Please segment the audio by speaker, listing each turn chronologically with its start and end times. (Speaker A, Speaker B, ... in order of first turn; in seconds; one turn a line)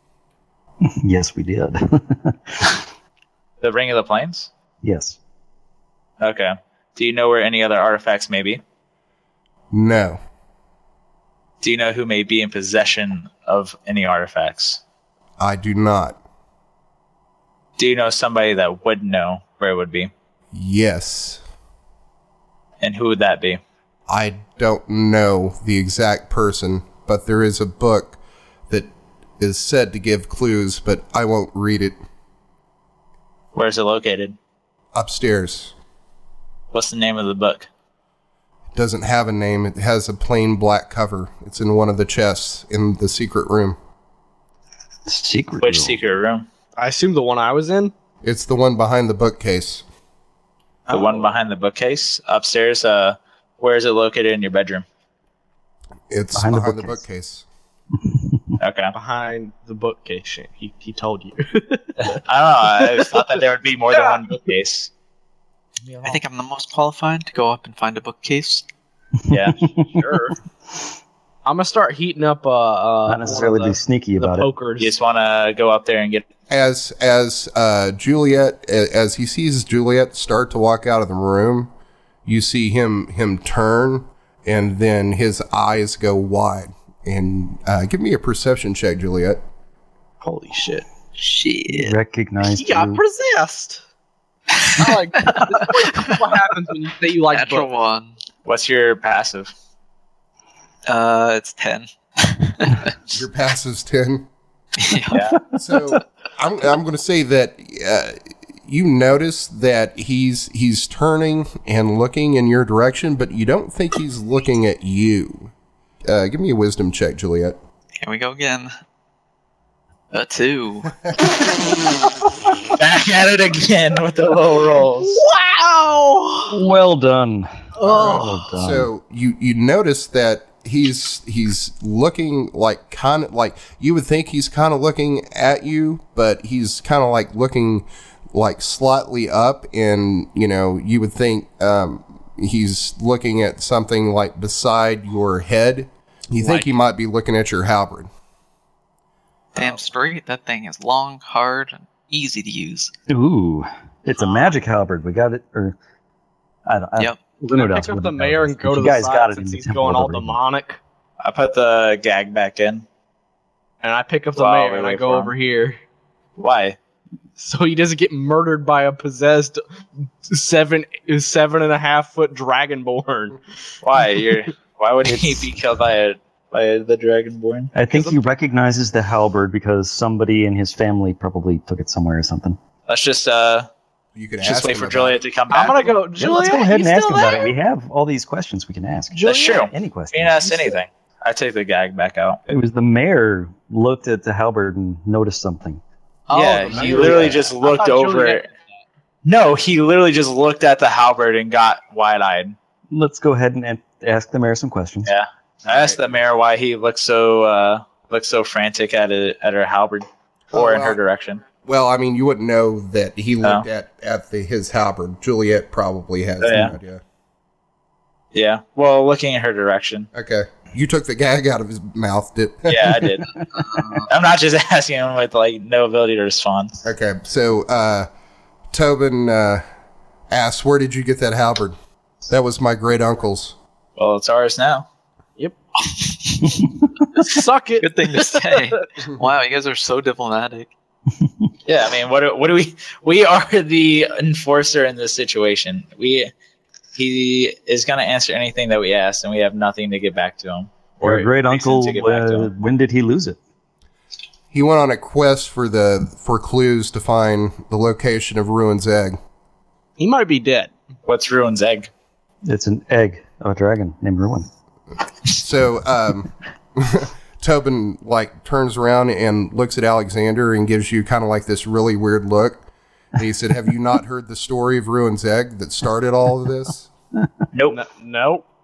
Speaker A: 0.8-2.9
Speaker B: 3.6-4.5
Speaker A: 4.8-5.2
Speaker B: 6.2-8.6
Speaker C: 9.7-10.2
Speaker B: 11.6-14.8
Speaker C: 15.4-16.2
Speaker B: 17.8-20.1
Speaker C: 20.5-21.4
Speaker B: 22.8-23.6
Speaker C: 24.1-28.2
Speaker C: 28.7-32.0
Speaker B: 33.5-34.4
Speaker C: 34.9-35.7
Speaker B: 36.7-37.7
Speaker C: 38.7-43.8
Speaker A: 45.0-46.0
Speaker B: 45.6-46.5
Speaker D: 46.8-47.9
Speaker C: 48.2-49.8
Speaker B: 50.9-54.9
Speaker D: 50.9-51.4
Speaker C: 56.1-57.5
Speaker A: 56.4-57.0
Speaker A: 58.0-58.5
Speaker B: 58.6-58.9
Speaker D: 58.9-62.2
Speaker B: 62.0-64.9
Speaker D: 62.8-63.2
Speaker D: 63.9-64.2
Speaker B: 65.8-66.2
Speaker E: 66.0-68.6
Speaker A: 69.3-70.0
Speaker B: 69.3-69.6
Speaker D: 69.6-70.4
Speaker D: 71.5-75.0
Speaker A: 73.1-74.5
Speaker B: 74.8-76.2
Speaker C: 76.5-81.7
Speaker C: 82.3-89.4
Speaker D: 90.2-90.8
Speaker E: 91.2-92.0
Speaker A: 91.7-93.0
Speaker D: 92.4-93.8
Speaker D: 94.7-97.7
Speaker E: 94.8-96.2
Speaker E: 97.3-98.2
Speaker B: 98.5-99.5
Speaker E: 100.9-103.0
Speaker C: 103.1-104.3
Speaker E: 104.8-105.2
Speaker B: 105.1-105.4
Speaker C: 105.5-115.5
Speaker C: 116.0-117.6
Speaker E: 118.0-118.7
Speaker E: 120.1-120.9
Speaker B: 122.8-125.2
Speaker D: 125.1-126.6
Speaker A: 126.5-128.9
Speaker D: 127.8-128.4
Speaker C: 127.8-148.1
Speaker E: 149.6-152.9
Speaker A: 153.1-155.8
Speaker A: 156.7-160.4
Speaker D: 157.5-160.8
Speaker B: 161.2-162.8
Speaker D: 163.8-165.8
Speaker B: 164.4-165.3
Speaker B: 166.4-166.8
Speaker D: 167.4-169.6
Speaker D: 170.3-173.4
Speaker B: 173.8-177.7
Speaker A: 175.1-175.5
Speaker A: 177.7-182.6
Speaker D: 177.9-178.3
Speaker B: 182.9-183.7
Speaker C: 184.2-185.2
Speaker B: 184.4-185.9
Speaker D: 185.5-187.5
Speaker A: 186.2-190.7
Speaker D: 189.1-189.7
Speaker B: 189.2-192.4
Speaker A: 192.5-195.8
Speaker D: 196.3-198.5
Speaker B: 196.3-198.5
Speaker A: 196.7-197.5
Speaker B: 199.2-202.6
Speaker A: 202.9-205.1
Speaker B: 205.0-211.4
Speaker C: 210.5-211.0
Speaker C: 211.7-217.0
Speaker B: 216.4-216.8
Speaker B: 218.3-220.1
Speaker C: 220.1-223.2
Speaker B: 222.7-226.8
Speaker C: 226.8-228.1
Speaker C: 228.7-229.6
Speaker C: 230.3-231.8
Speaker C: 232.3-233.6
Speaker B: 234.0-234.9
Speaker D: 237.2-238.8
Speaker E: 237.8-240.7
Speaker B: 241.7-246.3
Speaker B: 246.9-252.5
Speaker A: 251.0-253.4
Speaker C: 254.5-259.2
Speaker D: 260.0-260.7
Speaker B: 261.1-261.9
Speaker A: 262.4-264.5
Speaker C: 265.3-276.9
Speaker B: 277.5-277.8
Speaker D: 277.7-278.4